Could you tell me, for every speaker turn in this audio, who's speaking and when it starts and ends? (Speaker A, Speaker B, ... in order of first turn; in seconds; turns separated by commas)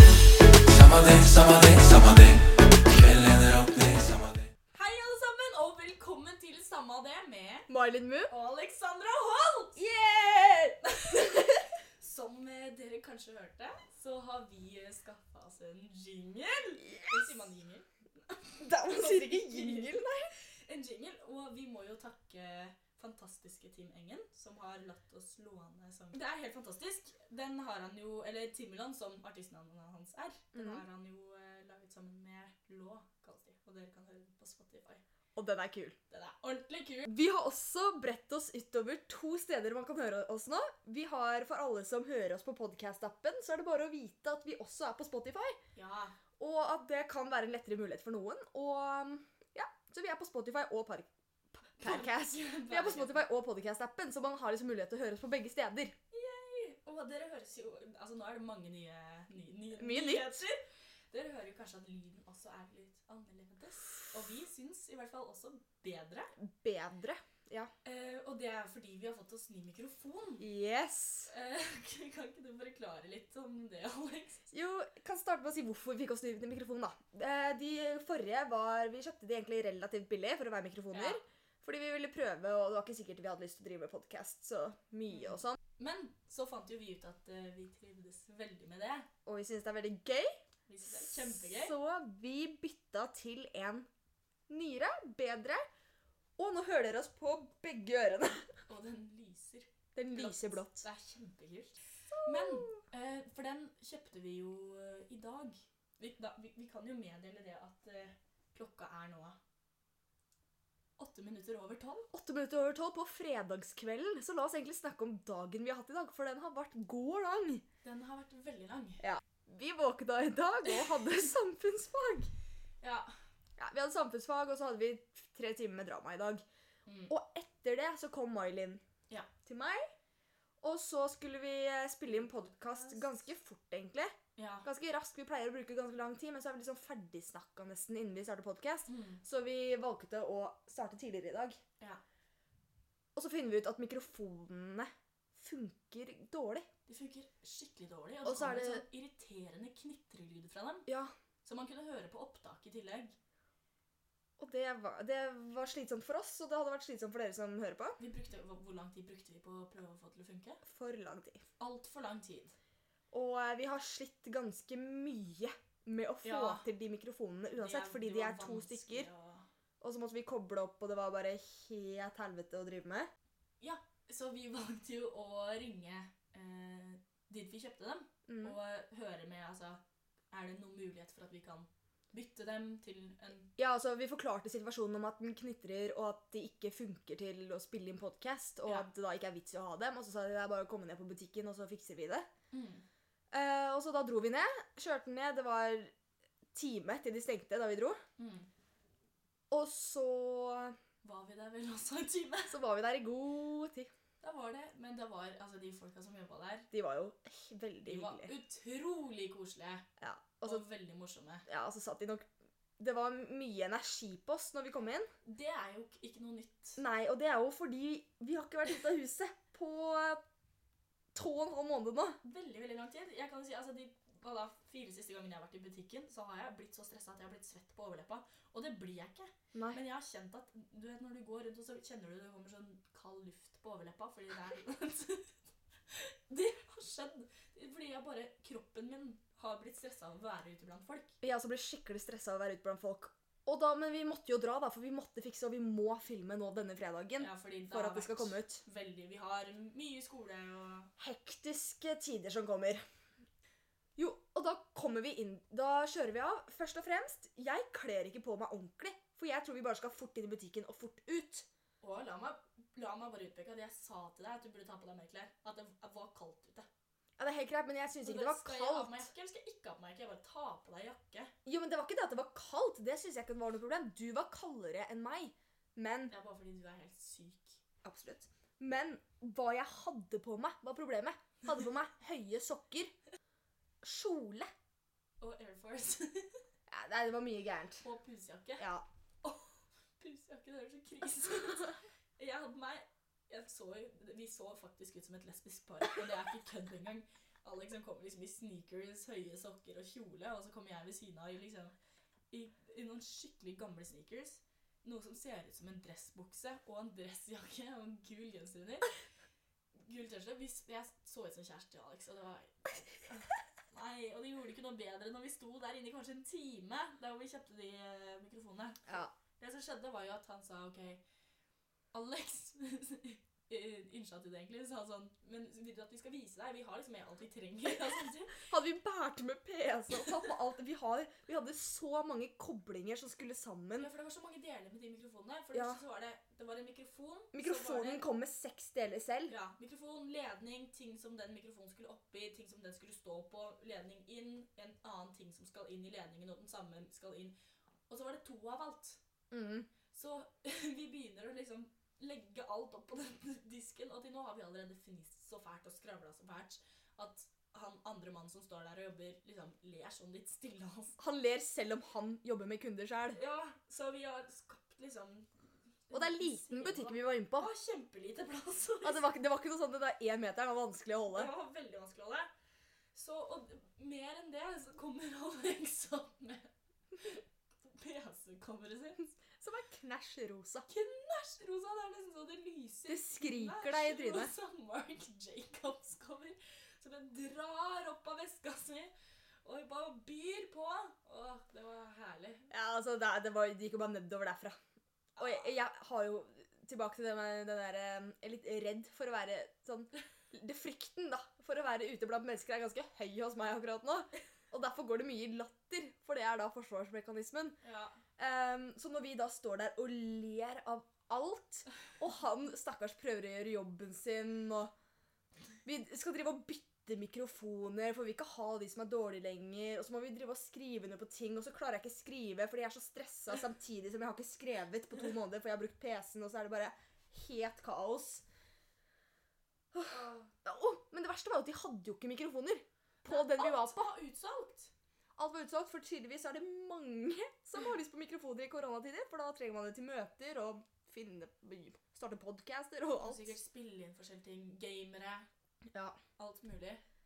Speaker A: 0.5-4.5, Speaker B: 4.7-7.7, Speaker C: 7.7-8.3, Speaker B: 8.3-9.8, Speaker C: 9.8-11.6, Speaker B: 10.9-35.0, Speaker C: 16.8-17.4, Speaker C: 18.6-20.3, Speaker C: 30.5-30.8, Speaker C: 35.4-36.0, Speaker B: 36.1-37.1, Speaker C: 37.1-45.6, Speaker B: 45.8-46.2, Speaker C: 46.4-56.0, Speaker B: 51.8-53.3, Speaker B: 56.1-66.3, Speaker C: 59.8-60.5, Speaker C: 66.4-67.7, Speaker B: 67.8-70.5, Speaker C: 70.4-71.3, Speaker B: 71.3-74.5, Speaker C: 74.5-85.6, Speaker B: 80.9-81.2, Speaker B: 85.1-89.1, Speaker C: 89.3-93.9, Speaker B: 90.7-91.8, Speaker C: 94.5-95.7, Speaker C: 96.4-98.5, Speaker B: 98.7-109.4, Speaker C: 100.0-100.8, Speaker C: 102.1-102.8, Speaker B: 111.0-112.1, Speaker C: 112.1-117.6, Speaker B: 117.8-119.0, Speaker C: 119.0-122.3, Speaker B: 122.8-123.1, Speaker C: 123.6-126.4, Speaker B: 126.9-127.1, Speaker C: 127.1-128.8, Speaker C: 129.5-129.9, Speaker C: 130.6-141.6, Speaker B: 132.1-133.2, Speaker B: 134.4-134.7, Speaker B: 138.9-139.2, Speaker C: 143.2-146.7, Speaker B: 146.9-150.9, Speaker C: 148.2-148.8, Speaker C: 150.9-151.1, Speaker B: 151.4-153.2, Speaker C: 154.4-158.0, Speaker B: 158.0-160.6, Speaker C: 160.6-161.4, Speaker B: 161.6-162.6, Speaker C: 163.1-169.1, Speaker B: 166.2-166.7, Speaker B: 167.6-169.5, Speaker C: 169.8-173.1, Speaker B: 173.6-179.8, Speaker C: 178.3-178.6, Speaker B: 180.3-183.5, Speaker C: 183.6-192.3, Speaker B: 192.5-192.8, Speaker C: 193.3-195.9, Speaker C: 196.5-198.0, Speaker B: 198.2-198.5, Speaker C: 199.5-200.8, Speaker B: 201.0-202.6, Speaker C: 202.5-203.9, Speaker B: 204.2-206.7, Speaker C: 206.7-208.3, Speaker B: 207.9-209.9, Speaker C: 210.0-210.6, Speaker B: 210.4-211.5, Speaker C: 211.5-212.3, Speaker C: 212.8-215.1, Speaker B: 215.2-216.8, Speaker C: 216.8-220.2, Speaker C: 221.1-222.2, Speaker B: 222.2-241.2, Speaker C: 229.5-229.8, Speaker C: 241.2-248.6, Speaker B: 247.2-250.9, Speaker C: 251.0-252.8, Speaker C: 254.0-261.5, Speaker B: 261.8-266.7, Speaker C: 267.2-269.1, Speaker B: 268.0-271.3, Speaker C: 271.4-276.1, Speaker B: 276.1-277.6, Speaker C: 277.8-282.9, Speaker C: 283.8-284.5, Speaker B: 285.2-286.4, Speaker C: 286.7-287.9, Speaker B: 287.8-288.7, Speaker C: 288.6-288.9, Speaker B: 289.2-301.7, Speaker B: 302.3-309.0, Speaker B: 309.8-321.0, Speaker C: 318.9-319.1, Speaker B: 321.9-328.4, Speaker C: 328.4-333.9, Speaker B: 333.8-338.1, Speaker C: 335.5-335.8, Speaker C: 337.3-339.4, Speaker B: 339.3-347.4, Speaker B: 347.9-349.0, Speaker C: 349.3-349.7, Speaker B: 349.9-361.0, Speaker C: 361.0-363.2, Speaker B: 363.1-365.3, Speaker B: 365.9-369.1, Speaker C: 365.9-367.5, Speaker C: 368.8-371.3, Speaker B: 371.1-372.3, Speaker B: 372.9-379.0, Speaker C: 379.1-380.7, Speaker B: 380.7-388.9, Speaker C: 382.9-384.3, Speaker B: 389.4-392.5, Speaker C: 392.5-394.6, Speaker B: 395.2-395.5, Speaker C: 395.2-407.6, Speaker B: 407.6-408.0, Speaker C: 408.2-414.7, Speaker C: 415.6-428.2, Speaker C: 429.7-433.9, Speaker B: 429.9-430.3, Speaker B: 433.1-434.7, Speaker C: 435.2-443.3, Speaker B: 443.0-445.3, Speaker C: 445.7-446.0, Speaker B: 446.2-446.8